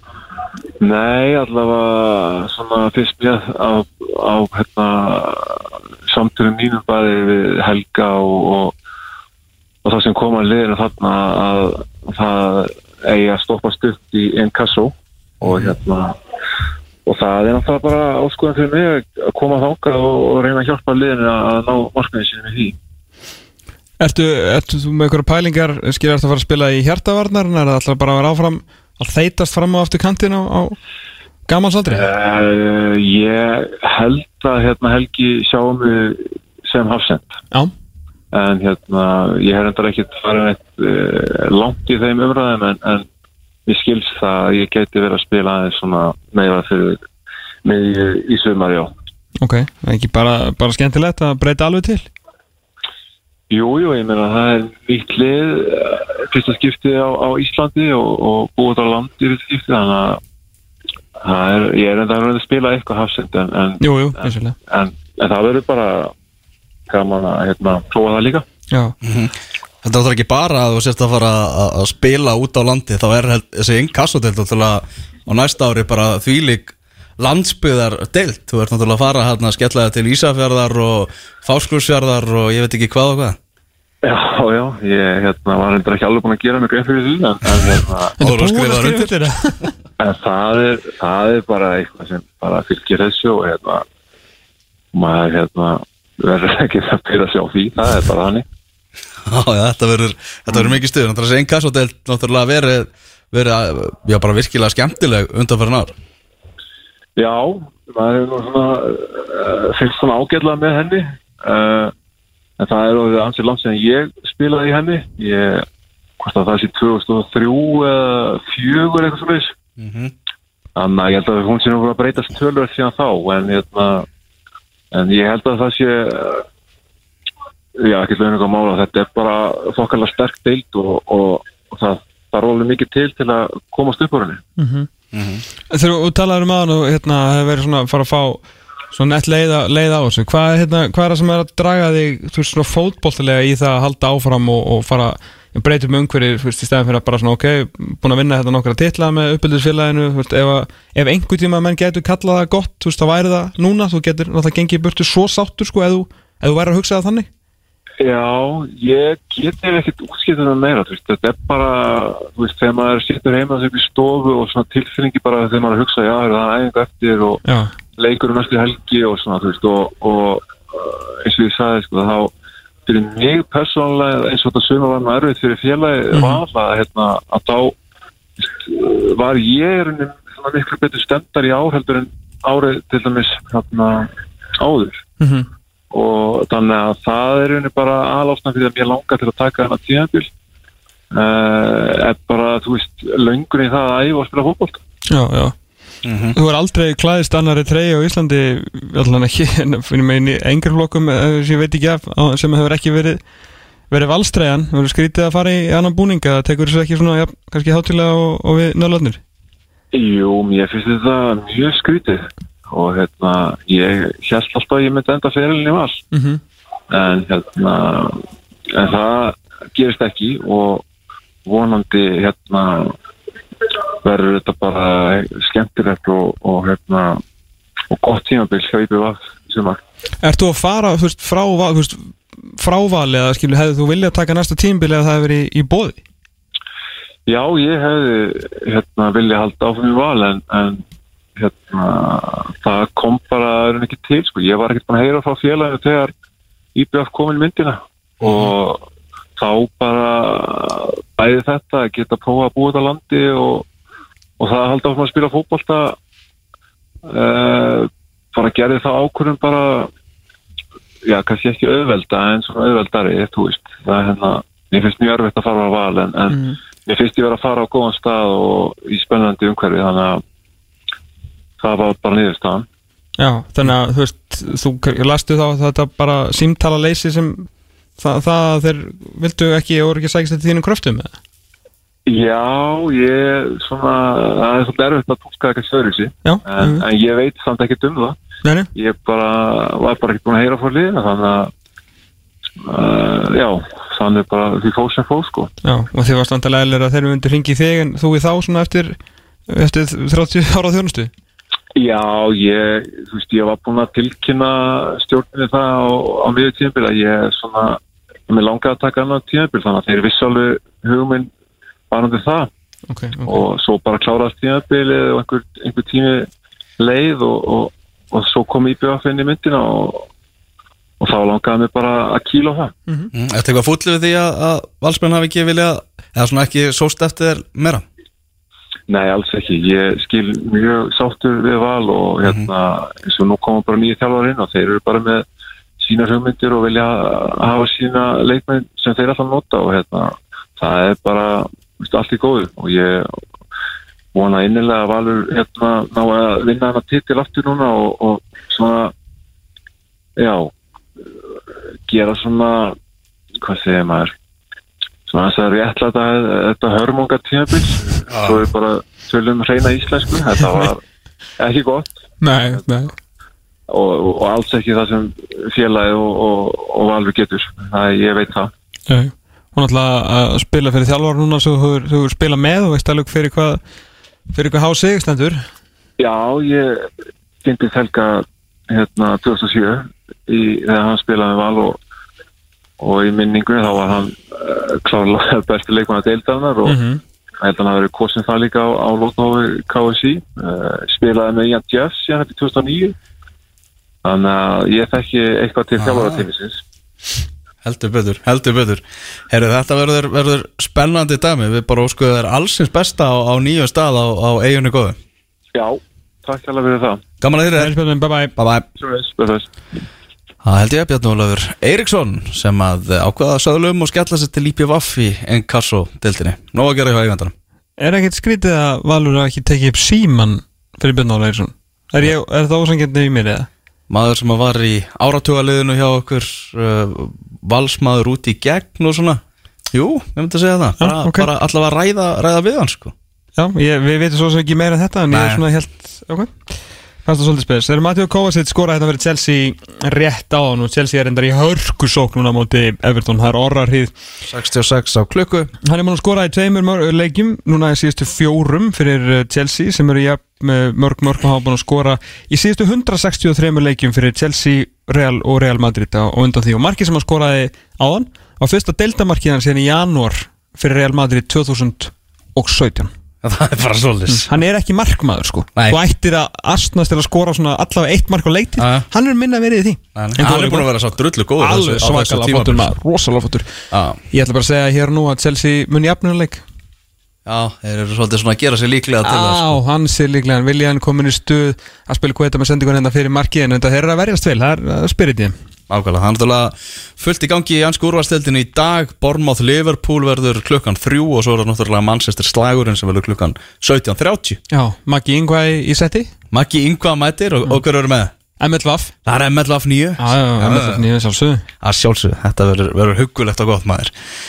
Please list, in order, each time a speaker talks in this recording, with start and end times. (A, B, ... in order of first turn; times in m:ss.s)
0:00.8-0:08.7 A
0:09.8-0:16.1 A
0:17.0-0:22.8 A
0:24.0-0:30.8 B
0:31.5-0:32.1 B
0:31.9-0:37.4 A
0:38.3-0:43.1 A
0:43.6-0:47.0 A
0:47.6-0:48.9 A
0:49.4-0:52.1 B
0:53.5-1:00.2 A
1:01.2-1:06.1 A
1:03.8-1:04.5 B
1:06.9-1:08.4 A
1:09.0-1:23.4 C
1:24.0-1:28.1 A
1:28.2-1:29.1 C
1:28.2-1:29.7 B
1:30.0-1:33.8 A
1:34.9-1:38.4 A
1:39.2-1:45.9 C
1:40.5-1:40.8 A
1:47.2-1:51.9 A
1:52.6-1:55.6 A
1:56.2-1:59.5 A
1:59.8-2:00.1 C
2:00.8-2:04.0 A
2:04.9-2:06.4 A
2:07.8-2:14.4 A
2:14.6-2:14.9 B
2:15.1-2:15.4 C
2:15.7-2:37.3 B
2:38.0-2:47.4 A
2:47.4-2:47.7 B
2:48.0-2:52.3 A
2:52.8-2:57.7 A
2:56.1-2:56.4 B
2:58.4-3:05.0 A
3:05.2-3:05.5 B
3:05.9-3:10.3 A
3:11.1-3:14.8 A
3:15.1-3:15.5 B
3:16.0-3:16.4 C
3:16.3-3:23.2 B
3:23.9-3:29.2 B
3:29.9-3:36.0 A
3:36.1-3:36.4 B
3:36.9-3:40.8 A
3:41.4-3:42.9 A
3:44.0-3:47.2 A
3:47.9-3:49.8 A
3:50.2-3:56.0 B
3:57.3-4:00.8 A
4:01.4-4:06.1 A
4:06.7-4:08.8 A
4:09.4-4:13.6 A
4:14.4-4:16.0 A
4:17.0-4:19.9 A
4:21.0-4:30.2 A
4:26.3-4:26.6 B
4:31.6-4:32.7 A
4:33.2-4:37.5 B
4:38.0-4:41.1 B
4:42.0-4:48.2 A
4:46.2-4:46.8 B
4:48.4-4:48.7 B
4:48.7-4:51.5 A
4:52.6-4:55.5 A
4:55.6-4:59.0 B
4:59.5-5:01.1 B
5:01.8-5:11.3 A
5:11.9-5:12.5 A
5:12.9-5:13.4 B
5:13.2-5:16.3 A
5:16.8-5:20.1 A
5:21.0-5:22.7 A
5:23.1-5:27.8 C
5:28.9-5:35.2 A
5:35.8-5:43.1 A
5:44.1-5:48.9 A
5:50.2-5:50.5 A
5:51.9-5:52.8 A
5:53.4-5:54.1 A
5:55.1-6:00.8 A
5:58.1-5:58.4 C
6:01.4-6:02.0 A
6:02.2-6:02.9 B
6:03.7-6:08.5 A
6:08.9-6:13.6 B
6:14.3-6:15.4 B
6:16.0-6:16.9 A
6:17.4-6:21.8 A
6:22.8-6:26.8 A
6:26.6-6:27.0 B
6:27.4-6:32.9 A
6:34.0-6:36.6 A
6:35.8-6:36.2 C
6:37.6-6:45.0 C
6:45.5-6:47.0 A
6:47.2-6:47.7 C
6:47.6-6:48.3 B
6:48.4-6:48.7 C
6:48.8-6:49.5 A
6:50.4-6:57.3 C
6:57.8-7:03.5 B
7:03.9-7:09.2 C
7:09.7-7:12.9 C
7:10.8-7:11.3 B
7:13.4-7:16.3 B
7:15.1-7:15.4 C
7:17.0-7:23.9 B
7:24.2-7:25.5 C
7:25.6-7:42.9 B
7:43.2-7:44.3 C
7:44.1-7:50.7 B
7:48.6-7:48.8 C
7:49.9-7:52.7 C
7:51.4-7:53.5 B
7:53.7-7:54.0 C
7:54.1-7:56.4 B
7:57.2-7:59.6 C
7:59.0-8:05.3 B
8:05.7-8:14.4 C
8:14.5-8:16.1 B
8:16.3-8:18.1 C
8:18.4-8:18.9 B
8:19.0-8:20.8 C
8:20.0-8:21.4 B
8:21.6-8:23.9 C